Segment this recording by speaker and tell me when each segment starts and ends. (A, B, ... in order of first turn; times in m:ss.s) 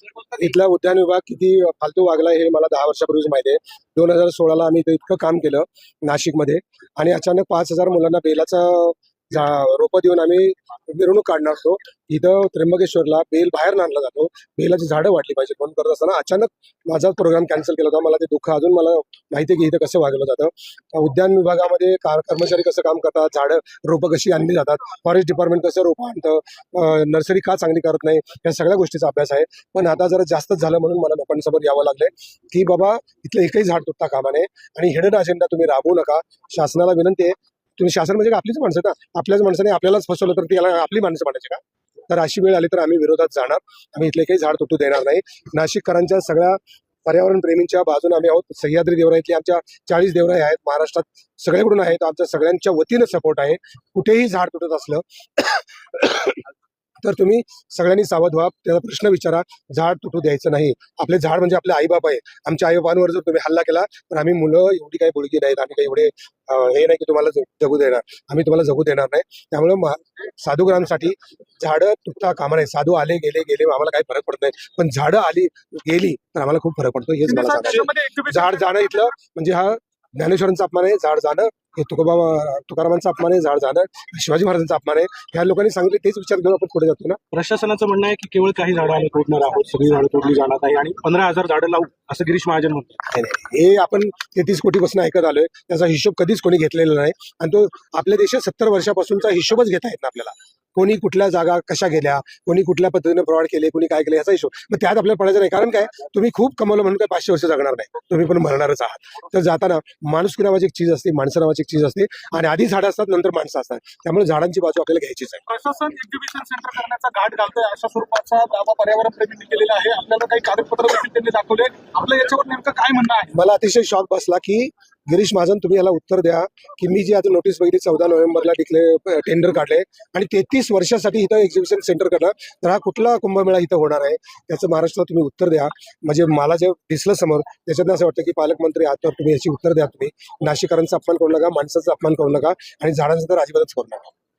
0:00.2-0:56.4 A
0:57.0-1:27.2 A
1:17.3-1:18.5 B
1:27.3-1:33.0 C
1:33.1-1:55.4 A
1:55.5-2:03.2 B
2:03.3-2:24.1 A